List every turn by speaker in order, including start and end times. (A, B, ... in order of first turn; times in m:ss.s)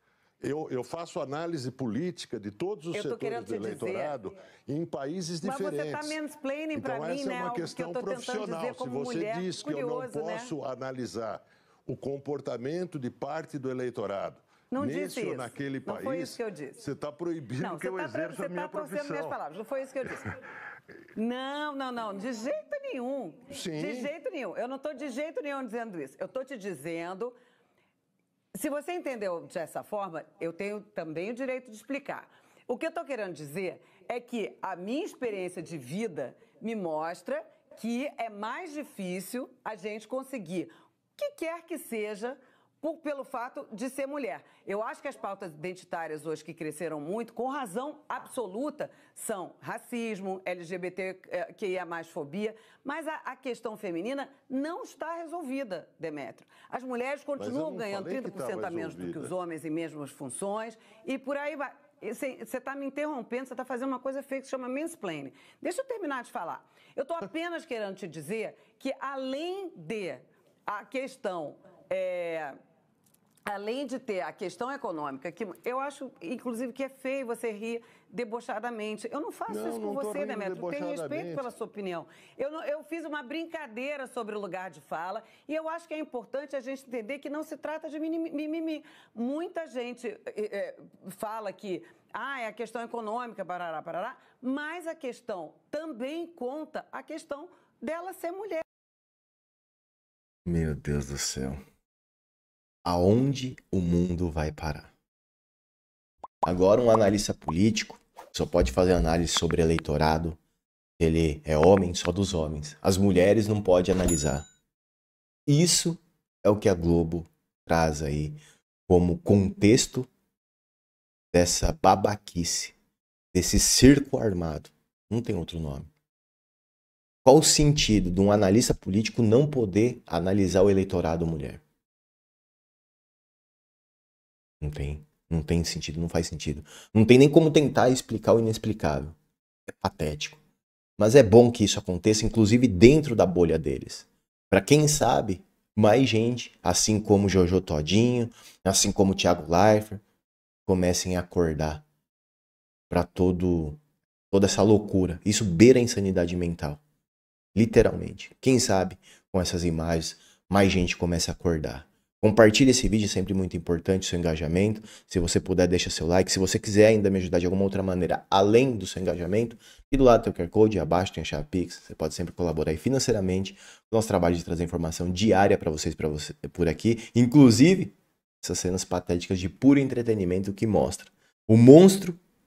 0:00.4-0:06.2 A
0:02.9-0:04.3 B
0:05.4-0:10.5 B
0:06.7-0:19.4 A
0:14.7-0:16.8 B
0:17.6-0:20.4 B
0:21.1-0:27.4 B
0:23.5-0:24.1 A
0:28.5-1:12.5 B
0:57.4-0:59.3 A
1:13.4-1:38.6 B
1:19.5-1:21.5 A
1:40.4-1:41.6 C
1:42.8-1:44.9 C
1:46.4-1:50.4 C
1:51.0-1:54.5 C
1:55.4-2:00.1 C
2:01.3-2:02.7 C
2:03.3-2:05.9 C
2:07.2-2:11.6 C
2:14.6-2:19.2 C
2:19.7-2:20.4 C
2:21.0-2:30.0 C
2:30.6-2:31.8 C
2:32.9-2:36.8 C
2:37.5-3:02.2 C